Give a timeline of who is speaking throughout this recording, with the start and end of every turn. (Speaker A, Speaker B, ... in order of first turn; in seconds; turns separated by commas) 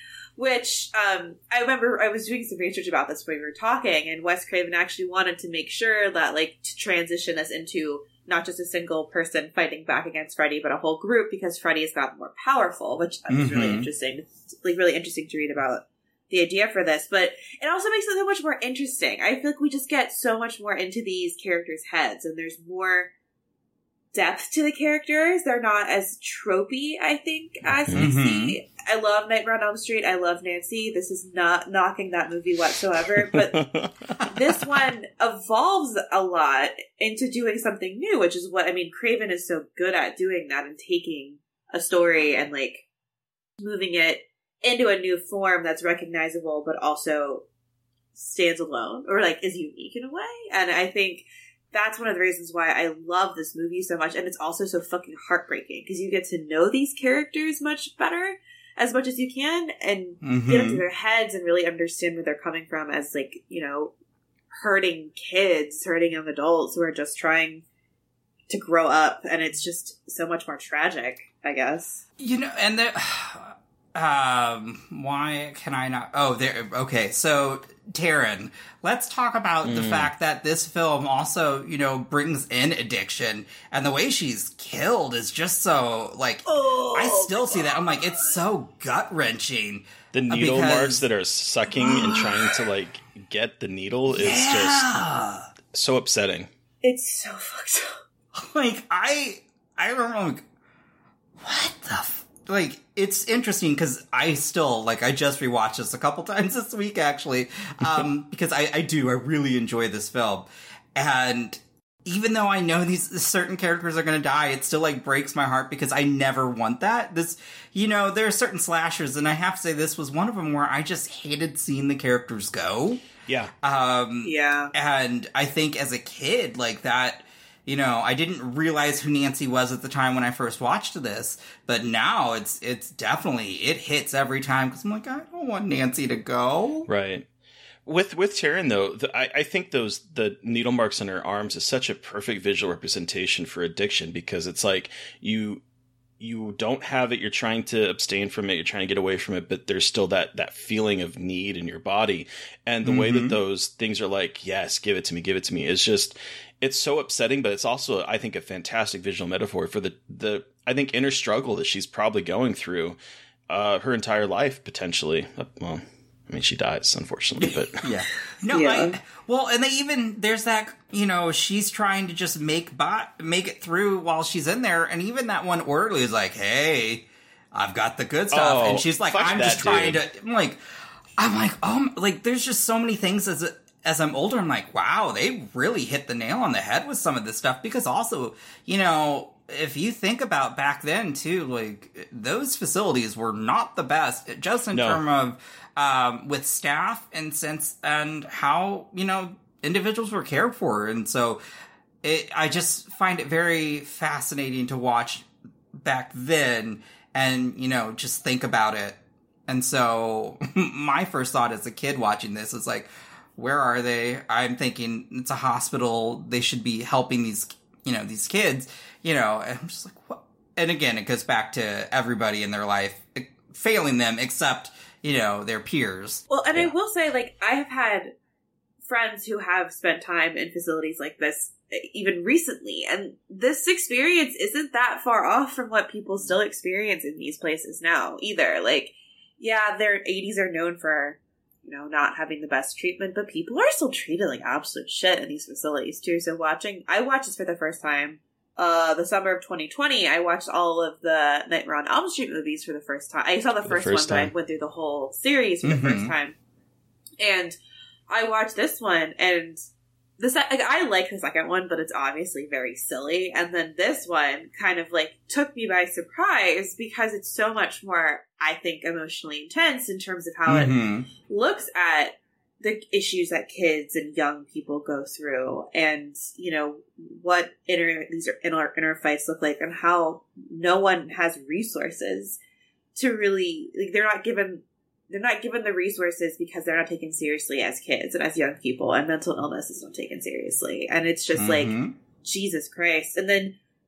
Speaker A: 0.4-23.1, Speaker B: 13.3-13.9, Speaker A: 24.1-33.6, Speaker B: 27.9-28.6, Speaker C: 33.5-33.9, Speaker A: 34.2-42.8, Speaker A: 43.6-47.4, Speaker A: 48.1-63.9, Speaker B: 60.2-60.8, Speaker A: 64.5-67.6, Speaker A: 68.5-72.0, Speaker B: 72.2-91.0, Speaker C: 79.6-80.1, Speaker A: 86.5-88.3, Speaker C: 90.1-94.9, Speaker B: 91.8-92.3, Speaker B: 94.1-95.5, Speaker C: 95.7-96.5, Speaker A: 96.8-98.0, Speaker B: 98.3-100.4, Speaker B: 101.4-123.0, Speaker C: 123.3-123.5, Speaker B: 123.6-136.9, Speaker A: 124.2-124.7, Speaker C: 136.9-137.2, Speaker C: 137.8-145.6, Speaker C: 146.2-163.0, Speaker B: 152.8-153.4, Speaker C: 163.5-167.8, Speaker B: 167.4-180.6, Speaker A: 168.5-169.0, Speaker C: 178.3-180.0, Speaker B: 181.2-201.4, Speaker C: 194.7-195.0, Speaker B: 202.0-205.2, Speaker B: 205.8-226.2, Speaker A: 226.3-228.1, Speaker A: 228.8-256.4, Speaker C: 253.6-254.3, Speaker B: 255.6-256.1, Speaker A: 257.2-257.6, Speaker A: 258.1-259.6, Speaker A: 260.2-282.4, Speaker B: 270.5-271.1, Speaker A: 282.9-293.6, Speaker B: 291.4-291.9